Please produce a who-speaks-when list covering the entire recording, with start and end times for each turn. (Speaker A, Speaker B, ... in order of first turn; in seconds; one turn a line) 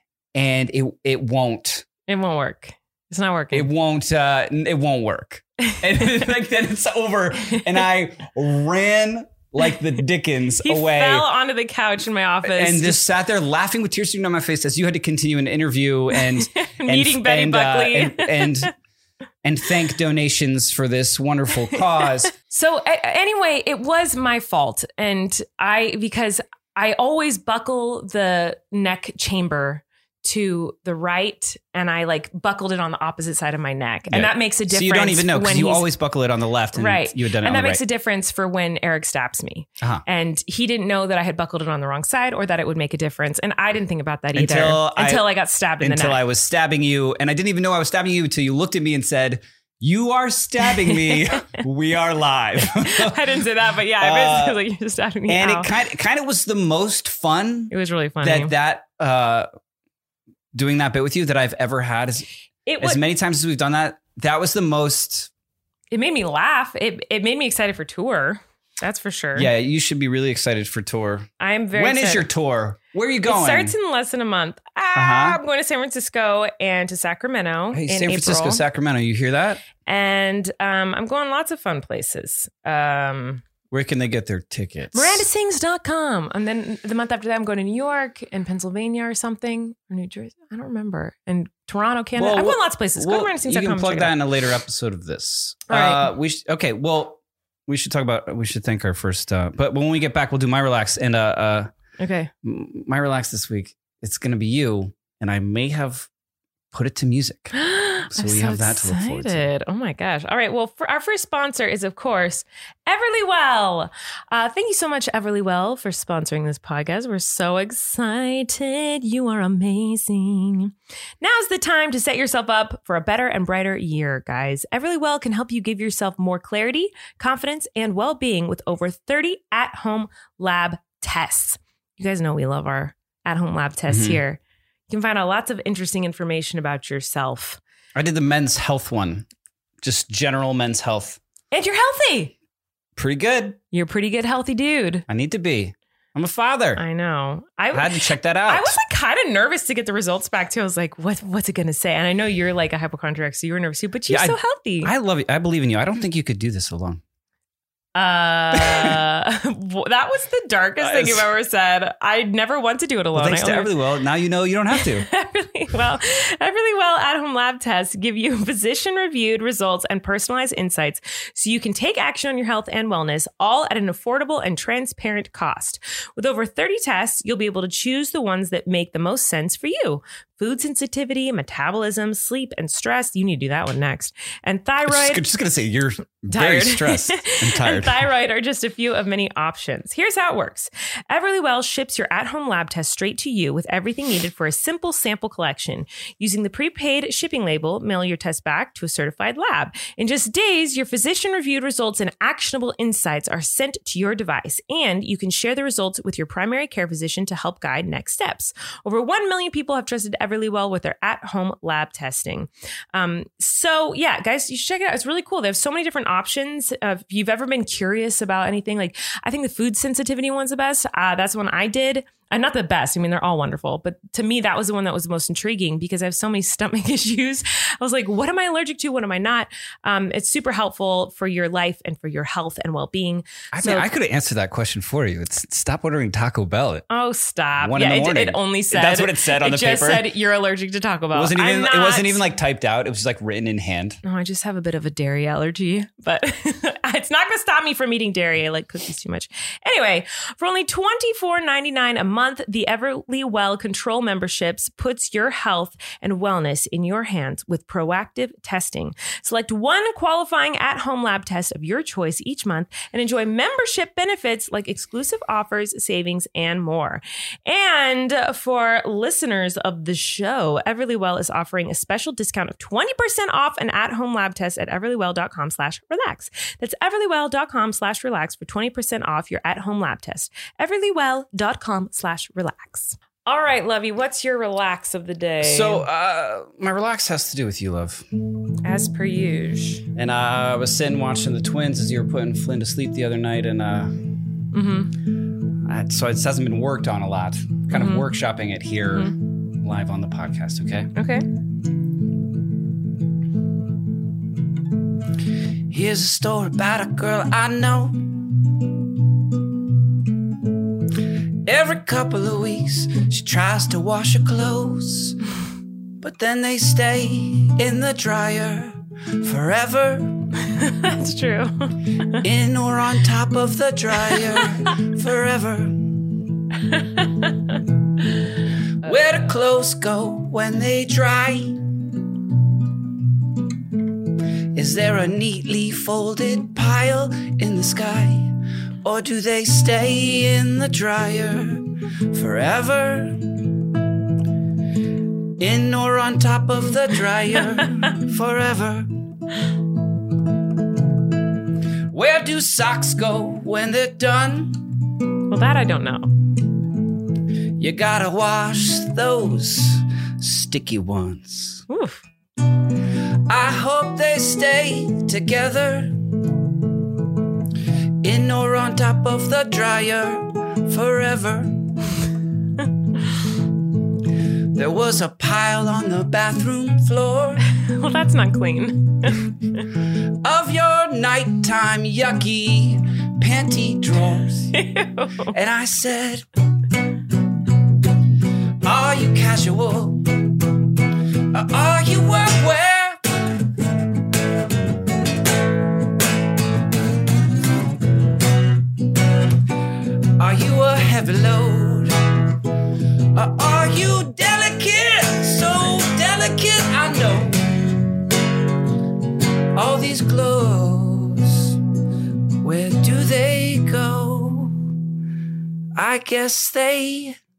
Speaker A: 0.3-1.9
Speaker B: 2.1-3.7
Speaker A: 3.5-11.3
Speaker B: 10.6-13.1
Speaker A: 12.4-18.7
Speaker B: 16.2-18.7
Speaker A: 19.4-22.3
Speaker B: 22.3-35.9
Speaker A: 34.1-37.8
Speaker B: 36.7-46.2
Speaker A: 44.3-45.3
Speaker A: 45.8-53.2
Speaker B: 50.7-51.4
Speaker B: 52.7-55.7
Speaker A: 54.0-54.6
Speaker A: 55.3-59.5
Speaker B: 57.7-58.5
Speaker A: 60.5-62.3
Speaker B: 62.6-63.0
Speaker A: 62.8-65.3
Speaker B: 65.9-69.5
Speaker A: 69.3-73.7
Speaker B: 71.4-72.3
Speaker B: 73.2-78.6
Speaker A: 74.9-75.4
Speaker A: 77.7-79.6
Speaker B: 79.8-83.4
Speaker A: 83.7-85.2
Speaker B: 84.9-94.1
Speaker A: 92.2-101.7
Speaker B: 95.7-96.1
Speaker B: 102.0-102.3
Speaker A: 102.4-106.1
Speaker A: 106.7-107.5
Speaker B: 107.5-137.6
Speaker A: 108.1-109.5
Speaker A: 133.9-134.2
Speaker A: 137.9-139.2
Speaker A: 139.8-141.2
Speaker B: 141.5-142.3
Speaker A: 142.9-143.6
Speaker B: 143.7-145.0
Speaker A: 145.1-146.8
Speaker B: 146.8-154.9
Speaker A: 147.7-148.8
Speaker A: 154.1-157.0
Speaker B: 157.9-163.7
Speaker A: 158.5-159.0
Speaker A: 160.8-161.3
Speaker A: 163.1-165.1
Speaker B: 164.7-185.2
Speaker A: 184.9-188.1
Speaker B: 186.3-233.9
Speaker A: 233.5-236.8
Speaker B: 236.9-242.2
Speaker A: 237.6-240.1
Speaker A: 241.1-244.0
Speaker B: 244.0-285.9
Speaker A: 285.4-288.1
Speaker B: 288.6-289.9
Speaker A: 289.9-294.1
Speaker B: 294.5-295.0
Speaker A: 295.5-300.9
Speaker B: 297.7-298.1
Speaker B: 300.9-301.3
Speaker A: 305.7-308.4
Speaker A: 311.4-315.2
Speaker A: 316.0-320.3
Speaker B: 320.4-322.2
Speaker A: 322.1-326.2
Speaker B: 324.1-324.4
Speaker B: 326.6-327.6
Speaker A: 328.8-331.9
Speaker A: 334.5-343.5
Speaker A: 345.4-348.9
Speaker A: 351.9-354.7
Speaker B: 355.3-356.1
Speaker A: 357.6-361.6
Speaker B: 361.7-362.0
Speaker A: 363.2-366.3
Speaker A: 368.0-371.7
Speaker A: 374.5-377.4
Speaker B: 377.5-379.6
Speaker A: 380.0-384.5
Speaker B: 384.5-385.3
Speaker A: 385.3-386.3
Speaker A: 388.6-393.2
Speaker A: 399.8-407.9
Speaker A: 409.5-411.7
Speaker A: 412.3-414.7
Speaker A: 415.7-417.2